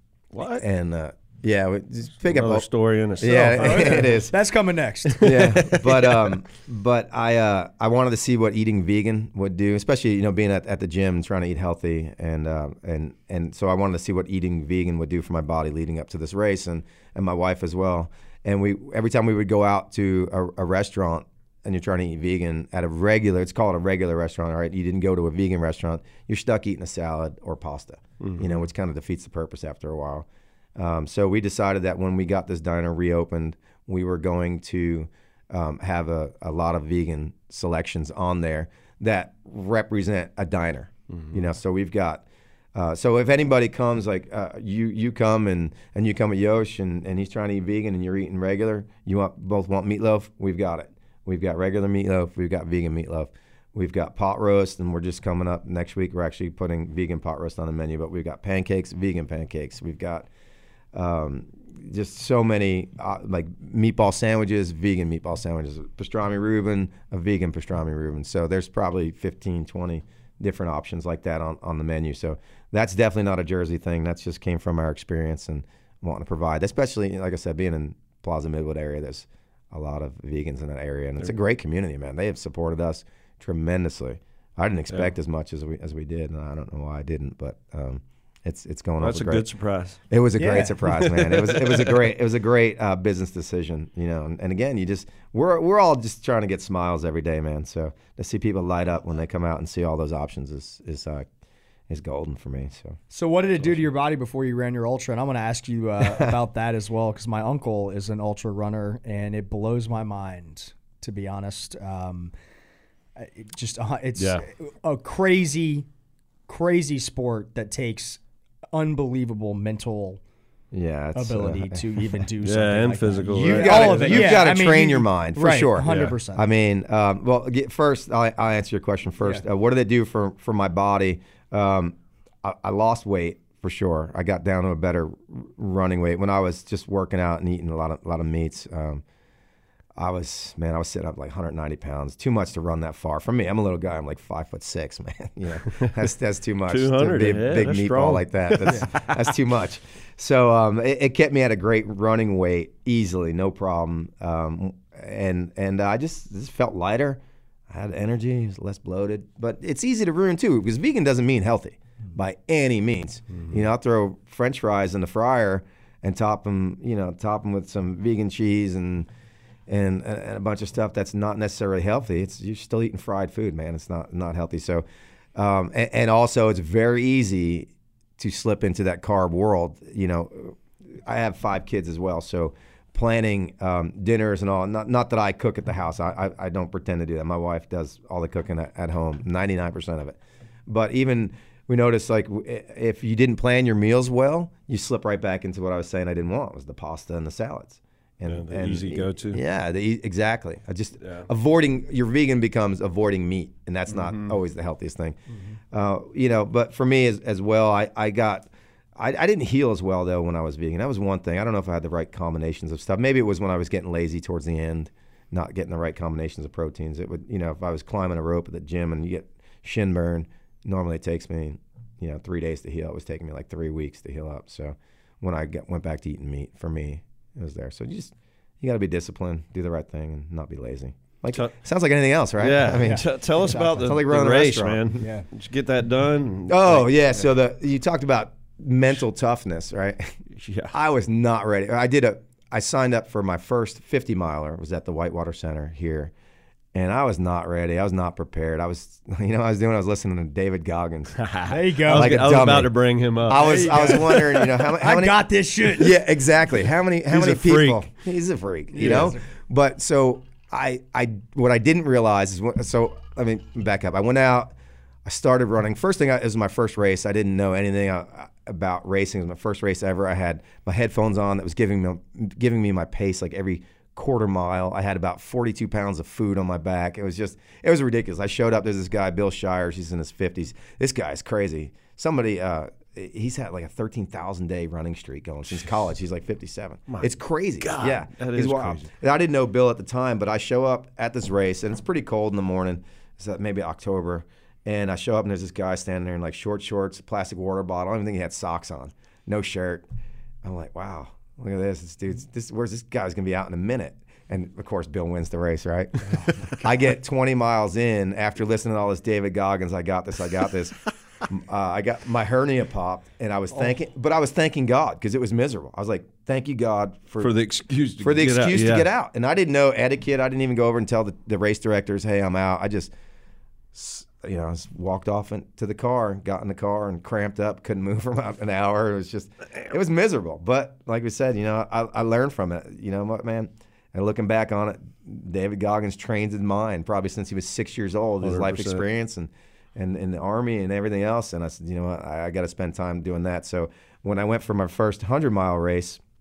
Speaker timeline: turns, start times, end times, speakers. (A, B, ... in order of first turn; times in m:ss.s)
0:00.3-0:00.6 A
0:00.5-0:02.7 B
0:02.3-0:04.1 A
0:03.2-0:04.3 B
0:03.3-0:05.6 C
0:05.1-0:06.4 A
0:05.2-1:00.3 B
0:28.2-0:28.6 A
1:00.9-1:29.4 B
1:29.0-1:30.0 A
1:30.1-1:41.3 B
1:30.4-1:30.7 C
1:30.8-1:32.0 A
1:41.9-1:43.0 B
1:43.1-1:52.3 C
1:46.0-1:46.3 B
1:53.2-1:55.9 C
1:54.2-1:54.4 A
1:56.5-1:58.2 C
1:58.7-2:00.2 C
2:00.7-2:02.0 B
2:01.1-2:06.4 C
2:02.4-2:04.4 A
2:03.3-2:19.0 B
2:05.8-2:06.1 A
2:20.0-2:49.1 B
2:26.7-2:29.4 A
2:49.7-2:54.8 B
2:55.3-3:25.2 B
3:18.2-3:19.4 A
3:21.0-3:21.3 A
3:23.9-3:24.3 A
3:25.7-3:54.9 B
3:52.4-3:57.1 A
3:52.8-3:53.9 C
3:55.0-3:55.2 C
3:56.5-4:00.2 B
4:00.4-4:00.7 A
4:00.7-4:06.1 B
4:06.7-4:11.2 B
4:11.2-4:14.3 A
4:11.5-4:12.6 C
4:11.9-4:24.5 B
4:13.4-4:16.0 C
4:17.1-4:17.8 A
4:18.7-4:19.2 C
4:18.8-4:19.1 A
4:25.0-4:59.8 B
4:47.6-4:48.9 A
5:00.4-5:17.3 B
5:17.2-5:18.9 A
5:18.0-5:22.9 B
5:23.7-5:46.0 B
5:38.2-5:38.8 A